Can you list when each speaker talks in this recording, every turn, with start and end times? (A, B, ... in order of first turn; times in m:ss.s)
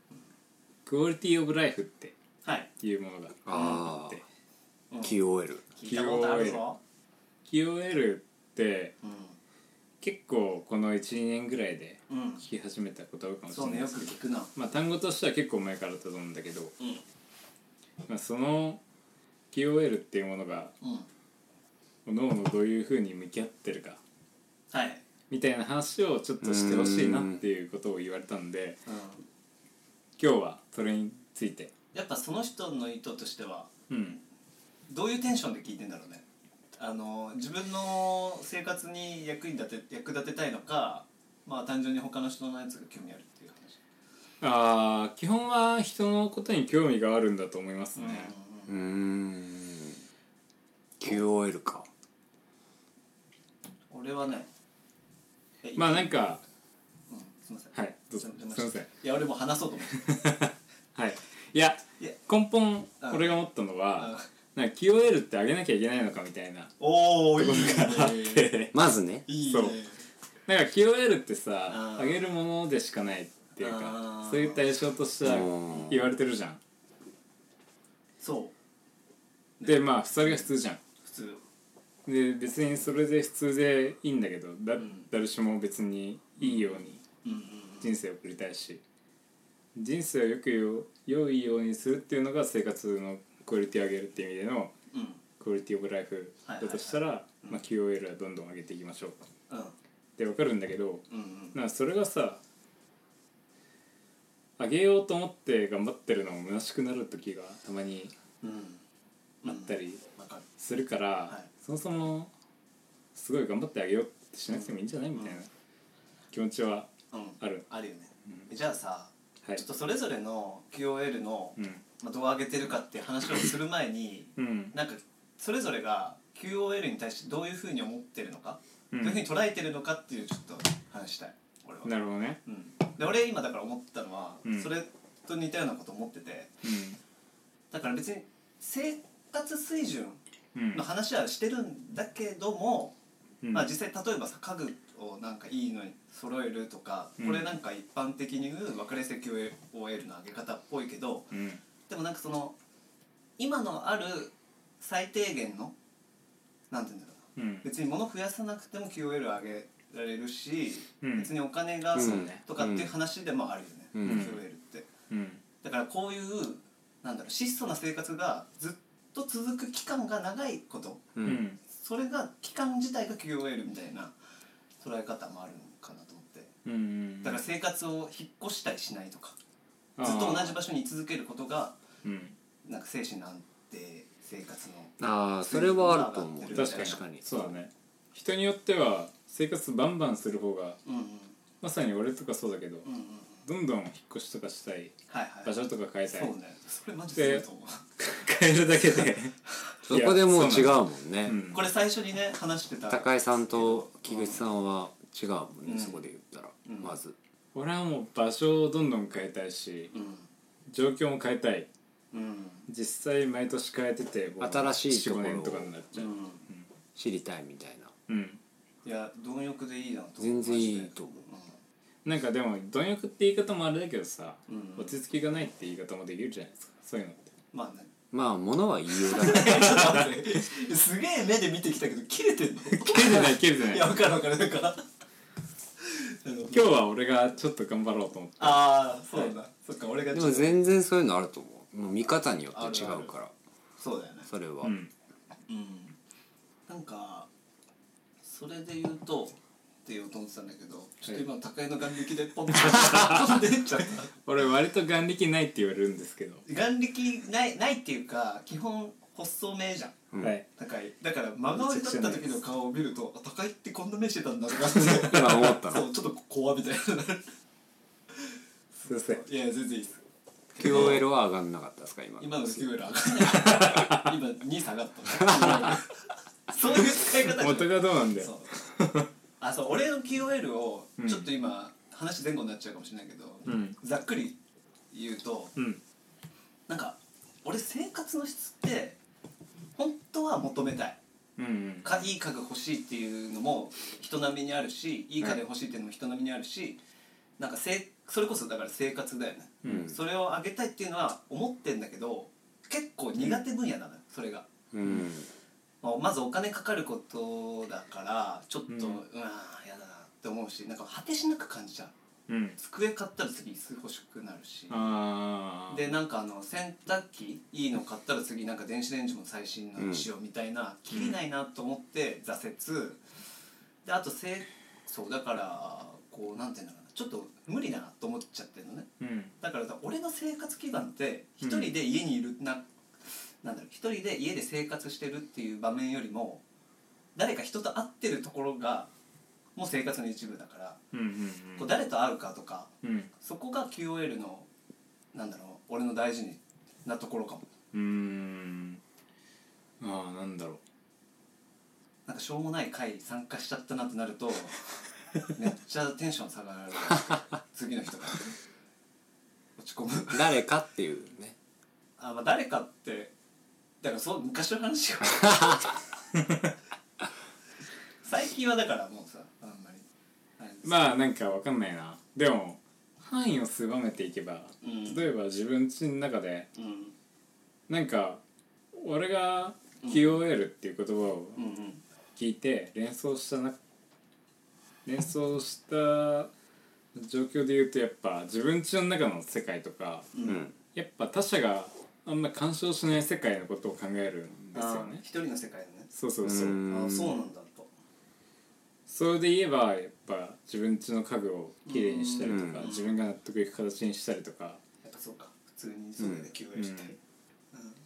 0:00.9-0:02.1 A
0:02.4-0:02.7 B
0:02.8-0:04.2 A
0:03.4-0:04.2 C
0:03.5-0:03.8 B
0:04.9-0:05.2 B
0:05.0-0:05.6 C
0:05.7-0:06.8 B
0:05.8-0:06.6 A
0:07.5-0:08.9 A
0:09.0-0:09.4 B
0:10.0-0:16.7 A
0:12.1-0:12.4 B
0:13.5-0:14.5 B
0:18.1-0:18.8 A
0:19.5-0:20.7 A
0:20.8-0:21.1 B
0:22.0-0:24.0 A
0:24.7-0:25.0 B
0:25.3-0:28.8 A
0:26.4-0:27.4 C
0:28.9-0:29.2 B
0:30.2-0:31.7 A
0:31.9-0:33.7 B
0:33.9-0:34.2 A
0:34.9-0:36.2 B
0:36.8-0:43.8 B
0:44.4-0:48.3 A
0:47.9-0:48.7 B
0:48.7-0:50.0 C
0:51.0-0:51.9 C
0:53.9-0:54.5 B
0:55.6-0:56.1 B
0:55.8-0:56.4 A
0:57.1-1:00.1 B
0:57.7-0:58.9 A
0:59.9-1:08.7 A
1:03.0-1:03.4 B
1:04.0-1:04.2 B
1:06.8-1:08.7 B
1:08.7-1:09.2 C
1:09.3-1:10.0 B
1:09.4-1:09.8 A
1:10.5-1:16.6 A
1:11.7-1:12.2 B
1:13.6-1:14.6 B
1:15.2-1:16.1 C
1:18.2-1:18.5 B
1:19.6-1:20.5 B
1:19.6-1:20.8 A
1:21.0-1:21.4 B
1:22.0-1:27.0 A
1:24.8-1:25.0 B
1:26.4-1:27.9 B
1:27.8-1:28.8 A
1:29.7-1:34.7 A
1:34.9-1:35.2 B
1:35.4-1:39.2 A
1:36.4-1:37.6 B
1:39.5-1:39.7 B
1:40.2-1:42.4 A
1:41.1-1:41.6 B
1:44.6-1:48.1 A
1:48.4-1:48.8 B
1:49.4-1:50.4 B
1:49.4-1:50.0 A
1:50.6-1:52.3 A
1:53.1-1:55.5 A
1:54.5-1:55.4 B
1:56.3-1:57.7 A
1:57.1-2:11.9 B
2:01.6-2:01.8 A
2:04.4-2:04.7 A
2:08.9-2:09.2 A
2:11.8-2:12.4 A
2:12.4-2:16.5 B
2:14.4-2:14.7 A
2:16.6-2:17.0 A
2:17.7-2:20.2 B
2:20.5-2:20.8 A
2:20.7-2:22.9 B
2:23.4-2:23.7 A
2:23.5-2:31.3 B
2:27.2-2:27.5 A
2:31.3-2:31.6 A
2:31.9-2:32.5 B
2:33.4-2:35.7 B
2:36.7-2:44.9 B
2:37.4-2:37.7 A
2:41.0-2:41.3 A
2:41.9-2:42.4 A
2:41.9-2:42.9 C
2:43.9-2:44.3 C
2:44.0-2:44.4 A
2:45.1-2:45.4 A
2:45.6-2:51.1 B
2:51.2-2:51.4 C
2:51.2-2:51.6 A
2:51.6-2:54.1 B
2:54.8-2:56.5 B
2:56.6-2:57.4 A
2:57.2-2:59.4 B
3:00.0-3:00.6 A
3:00.0-3:01.8 B
3:02.0-3:02.4 A
3:02.6-3:07.0 B
3:05.0-3:07.5 C
3:06.5-3:10.8 A
3:10.8-3:11.3 B
3:11.6-3:12.9 A
3:12.8-3:13.4 B
3:13.4-3:16.3 A
3:15.1-3:17.9 B
3:17.2-3:17.4 A
3:18.0-3:19.4 A
3:19.9-3:21.4 C
3:19.9-3:21.7 A
3:21.5-3:24.5 B
3:22.9-3:27.2 C
3:25.6-3:26.0 B
3:26.6-3:27.0 B
3:27.5-3:29.9 A
3:29.9-3:30.3 B
3:30.7-3:31.7 A
3:32.1-3:32.6 B
3:32.7-3:36.6 A
3:34.4-3:35.7 C
3:35.9-3:36.4 B
3:37.0-3:37.9 C
3:38.1-3:38.4 A
3:38.8-3:41.5 B
3:40.2-3:41.2 C
3:42.0-3:47.3 A
3:44.5-3:45.0 B
3:47.5-3:47.9 B
3:48.1-3:49.9 C
3:49.0-3:54.8 B
3:49.3-3:50.1 A
3:52.7-3:54.0 A
3:55.8-3:56.7 B
3:56.5-3:58.7 A
3:58.4-4:00.6 B
4:00.1-4:03.3 C
4:02.5-4:03.1 B
4:03.8-4:04.3 B
4:04.3-4:04.7 C
4:04.6-4:04.9 A
4:05.5-4:06.0 B
4:06.7-4:07.3 B
4:08.2-4:14.1 B
4:12.6-4:13.4 A
4:14.2-4:16.4 A
4:16.4-4:27.3 B
4:21.5-4:22.4 A
4:24.8-4:25.9 C
4:28.8-4:30.0 B
4:28.9-4:29.2 A
4:30.5-4:31.0 B
4:30.6-4:32.6 C
4:32.2-4:35.9 B
4:33.4-4:34.1 A
4:35.2-4:35.5 C
4:36.5-4:38.5 B
4:37.0-4:39.1 A
4:39.4-4:44.4 B
4:41.0-4:41.3 A
4:43.4-4:43.8 A
4:44.9-4:45.5 B
4:46.7-4:49.0 B
4:49.8-4:51.0 B
4:51.4-4:52.0 A
4:51.8-4:56.8 B
4:57.4-5:04.5 B
4:59.6-4:59.9 A
4:59.6-4:59.9 C
5:04.7-5:05.3 C
5:05.8-5:11.9 B
5:08.7-5:09.0 A
5:12.3-5:12.6 A
5:12.6-5:14.9 B
5:14.7-5:15.9 A
5:15.7-5:23.0 B
5:19.8-5:20.0 C
5:20.9-5:21.2 A
5:23.8-5:28.9 B
5:29.0-5:29.3 A
5:29.4-5:32.6 B
5:31.4-5:31.7 A
5:33.4-5:36.4 B
5:37.1-5:38.9 B
5:39.6-5:40.8 B
5:40.9-5:41.7 A
5:41.6-5:44.5 B
5:42.8-5:43.1 A
5:45.1-5:47.5 B
5:47.7-5:48.8 A
5:49.8-5:50.6 A
5:52.1-5:54.6 B
5:55.3-5:58.3 B
5:59.6-6:00.4 B
6:00.1-6:01.4 C
6:02.0-6:03.1 B
6:03.8-6:05.8 B
6:08.0-6:09.8 B
6:10.4-6:11.0 B
6:10.6-6:16.5 A
6:14.6-6:15.0 B
6:16.6-6:16.9 B
6:17.7-6:18.2 A
6:18.7-6:21.4 A
6:19.8-6:20.2 B
6:21.4-6:21.8 B
6:22.2-6:23.6 A
6:24.8-6:26.3 A
6:26.9-6:30.1 A
6:30.1-6:30.4 B
6:30.2-6:30.5 C
6:30.7-6:35.0 A
6:34.5-6:35.9 B
6:35.9-6:36.6 A
6:36.2-6:37.2 C
6:36.6-6:37.7 B
6:38.9-6:44.6 A
6:41.6-6:42.9 B
6:42.2-6:42.7 C
6:44.8-6:47.0 B
6:46.0-6:46.3 C
6:46.5-6:46.9 A